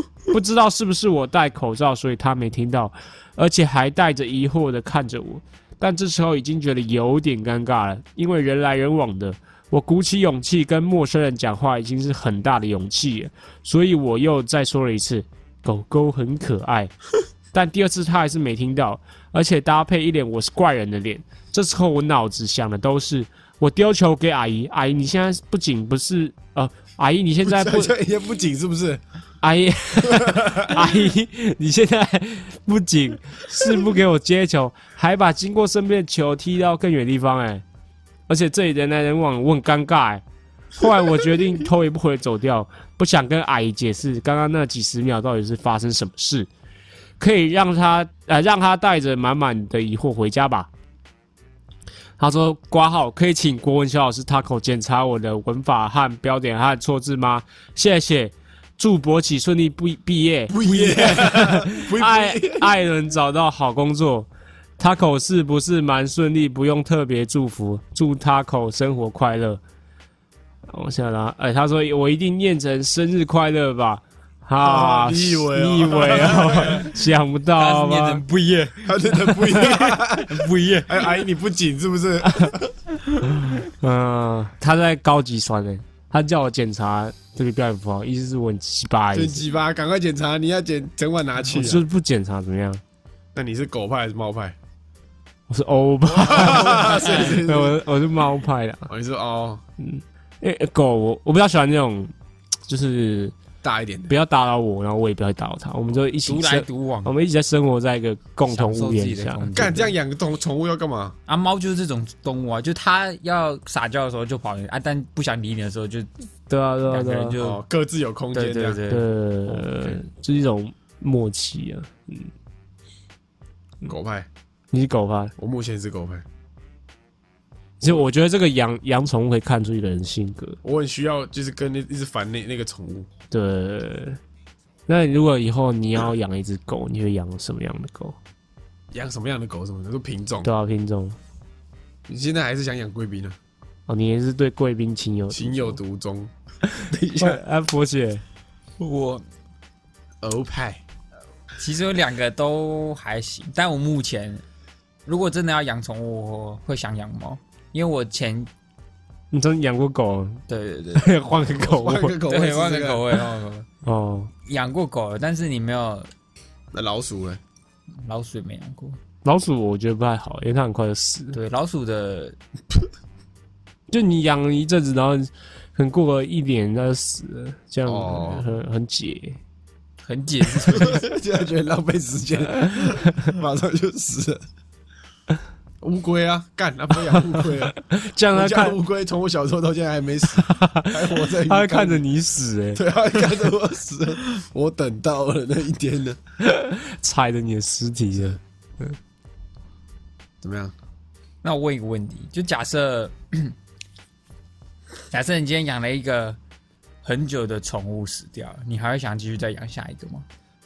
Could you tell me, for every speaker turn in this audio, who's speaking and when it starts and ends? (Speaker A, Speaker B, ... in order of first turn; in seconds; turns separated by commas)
Speaker A: 0.3-16.9, Speaker A: 17.5-27.9, Speaker B: 27.4-29.0, Speaker A: 29.4-37.6, Speaker B: 30.0-31.0, Speaker A: 38.3-40.2, Speaker A: 40.8-46.5, Speaker A: 47.2-50.7, Speaker A: 52.2-69.6, Speaker B: 60.5-62.7, Speaker A: 70.7-78.2, Speaker B: 74.6-76.9, Speaker C: 77.5-81.0, Speaker B: 78.8-82.7, Speaker A: 82.2-82.5, Speaker A: 83.2-89.4, Speaker B: 89.1-91.8, Speaker A: 91.5-92.8, Speaker B: 93.3-94.5, Speaker A: 95.5-98.9, Speaker B: 96.2-97.8, Speaker C: 96.4-97.3, Speaker B: 98.9-99.6, Speaker A: 99.8-102.1, Speaker A: 102.7-103.3, Speaker B: 103.6-104.1, Speaker A: 104.1-109.5, Speaker C: 106.2-107.1, Speaker C: 108.5-109.9, Speaker B: 109.5-111.1, Speaker C: 111.3-116.1, Speaker A: 116.5-117.4, Speaker C: 116.9-117.6, Speaker B: 117.4-118.8, Speaker C: 118.3-119.7, Speaker A: 118.9-122.3, Speaker B: 123.9-124.3, Speaker A: 124.7-125.3, Speaker B: 125.4-126.2, Speaker A: 127.8-130.6, Speaker B: 130.6-133.1, Speaker A: 133.3-134.2, Speaker A: 134.9-138.2, Speaker B: 138.9-140.5, Speaker A: 140.4-141.2, Speaker B: 142.1-143.3, Speaker A: 143.9-145.8, Speaker B: 145.3-146.3, Speaker A: 146.7-148.2, Speaker B: 146.8-147.4, Speaker C: 148.8-149.2, Speaker B: 150.2-150.8, Speaker C: 151.6-154.4, Speaker C: 155.1-158.5, Speaker A: 159.3-160.4, Speaker C: 160.5-161.1, Speaker A: 160.9-162.2, Speaker B: 161.6-163.1, Speaker C: 162.2-163.7, Speaker A: 163.8-164.3, Speaker C: 164.4-166.1, Speaker B: 166.7-167.4, Speaker C: 168.0-169.0, Speaker A: 169.2-171.4, Speaker C: 171.3-172.4, Speaker A: 173.9-179.4, Speaker B: 177.8-178.4, Speaker C: 180.0-181.1, Speaker B: 180.7-184.4, Speaker A: 182.5-183.4, Speaker B: 185.8-187.8, Speaker A: 187.1-188.8, Speaker B: 188.3-192.0, Speaker A: 190.3-192.8, Speaker B: 192.7-196.2, Speaker A: 196.4-199.0, Speaker B: 200.4-200.7, Speaker C: 201.4-203.6, Speaker C: 205.1-206.4, Speaker C: 207.0-210.2